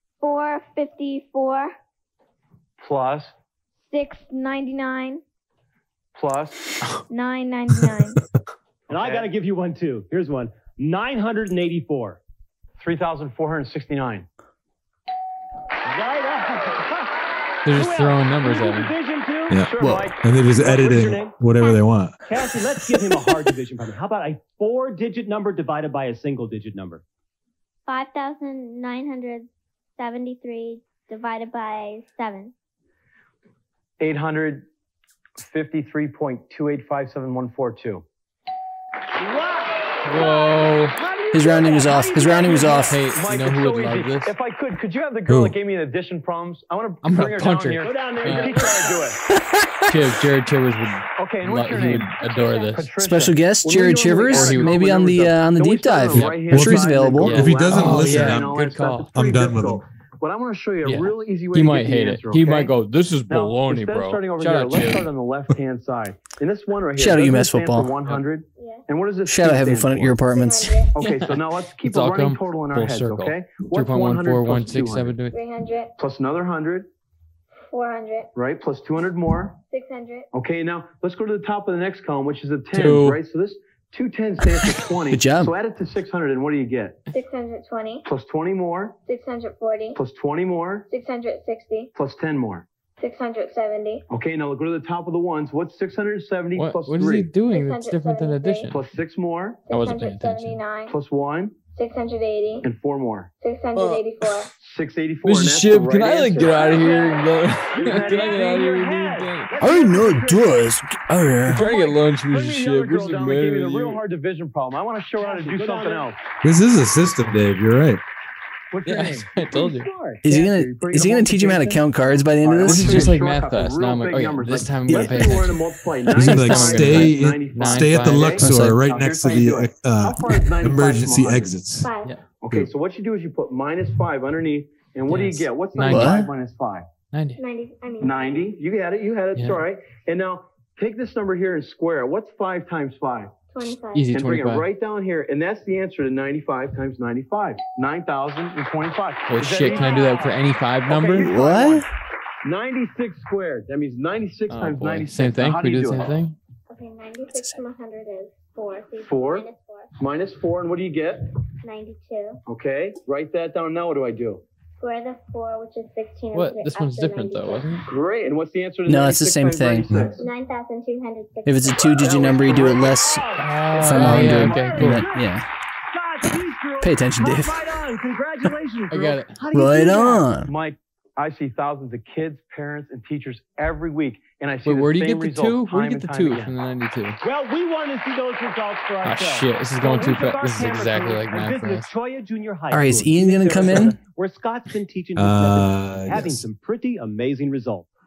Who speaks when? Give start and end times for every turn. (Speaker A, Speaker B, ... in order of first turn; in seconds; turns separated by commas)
Speaker A: 0.2-1.7, Speaker B: 2.8-3.3, Speaker A: 3.8-5.2, Speaker B: 6.1-6.6, Speaker A: 7.1-8.2, Speaker C: 8.9-12.2, Speaker B: 8.9-9.3, Speaker B: 12.8-14.3, Speaker C: 15.9-17.1, Speaker D: 17.6-18.9, Speaker C: 17.7-21.4, Speaker E: 19.5-22.2, Speaker F: 19.8-20.1, Speaker A: 21.5-21.9, Speaker C: 22.3-27.0, Speaker A: 27.9-32.5, Speaker B: 34.0-34.7, Speaker B: 35.4-38.0, Speaker C: 39.2-43.0, Speaker D: 40.0-41.0, Speaker F: 41.3-43.0, Speaker D: 42.7-44.3, Speaker B: 43.1-48.8, Speaker E: 45.3-45.5, Speaker D: 47.0-48.9, Speaker C: 47.8-49.2, Speaker F: 49.4-49.7, Speaker D: 49.9-52.9, Speaker B: 51.2-62.7, Speaker A: 52.3-52.7, Speaker F: 53.0-57.4, Speaker D: 54.2-54.9, Speaker D: 56.1-56.6, Speaker E: 56.1-59.8, Speaker D: 57.2-59.1, Speaker D: 60.8-65.1, Speaker B: 63.3-70.2, Speaker F: 67.0-67.9, Speaker A: 68.6-68.8, Speaker F: 69.2-70.8, Speaker A: 70.3-70.9, Speaker B: 70.9-75.2, Speaker D: 71.0-75.3, Speaker A: 75.3-75.9, Speaker B: 76.0-76.9, Speaker A: 77.7-78.3, Speaker B: 78.3-79.6, Speaker A: 79.7-80.3, Speaker B: 80.3-87.0, Speaker D: 82.7-83.2, Speaker F: 85.1-85.5, Speaker A: 87.1-88.0, Speaker B: 88.0-89.0, Speaker A: 89.0-90.0, Speaker B: 89.9-90.9, Speaker A: 90.9-91.9, Speaker B: 91.9-92.7, Speaker A: 93.0-94.0, Speaker B: 94.1-97.3, Speaker D: 96.5-98.8, Speaker A: 97.5-98.7, Speaker B: 98.7-99.6, Speaker A: 99.7-100.9, Speaker D: 99.7-100.6, Speaker B: 100.9-101.5, Speaker A: 101.7-102.7, Speaker B: 102.6-103.3, Speaker A: 103.4-104.5, Speaker B: 104.6-106.8, Speaker D: 105.2-109.5, Speaker A: 106.7-107.3, Speaker C: 107.7-110.7, Speaker F: 109.6-111.7, Speaker D: 111.5-114.0, Speaker C: 111.6-111.9, Speaker B: 112.3-116.1, Speaker C: 115.2-116.1, Speaker E: 116.4-118.0, Speaker D: 118.8-119.9, Speaker C: 118.8-120.5, Speaker B: 118.9-119.2, Speaker F: 120.2-123.1, Speaker B: 120.3-121.7, Speaker C: 121.4-121.7, Speaker B: 122.3-131.6, Speaker D: 122.6-128.4, Speaker E: 122.7-123.1, Speaker F: 124.9-125.3, Speaker E: 126.1-131.9, Speaker F: 128.4-128.8, Speaker A: 131.8-132.1, Speaker B: 132.4-136.9, Speaker D: 135.1-136.2, Speaker F: 135.8-136.3, Speaker D: 137.1-137.4, Speaker A: 137.4-138.5, Speaker B: 138.0-143.3, Speaker D: 139.3-139.6, Speaker A: 143.5-144.2, Speaker D: 143.9-144.7, Speaker B: 144.1-150.1, Speaker D: 149.3-151.7, Speaker A: 149.6-150.4, Speaker B: 150.9-151.8, Speaker F: 151.2-151.9, Speaker B: 152.4-156.2, Speaker D: 154.5-156.3, Speaker A: 156.7-159.9, Speaker B: 159.0-159.4, Speaker B: 160.0-161.2, Speaker A: 161.6-162.4, Speaker B: 162.5-164.4, Speaker A: 164.8-167.8, Speaker D: 166.3-167.8, Speaker B: 167.8-170.2, Speaker F: 168.9-169.9, Speaker E: 169.9-170.2, Speaker A: 170.2-172.5, Speaker F: 171.4-175.4, Speaker C: 172.0-175.3, Speaker D: 173.4-175.0, Speaker C: 175.9-180.3, Speaker F: 176.8-177.6, Speaker D: 178.9-179.3, Speaker F: 179.5-180.5, Speaker B: 180.4-186.5, Speaker D: 184.6-187.2, Speaker C: 187.2-197.9, Speaker D: 189.0-191.9, Speaker F: 192.7-193.9, Speaker E: 195.2-196.4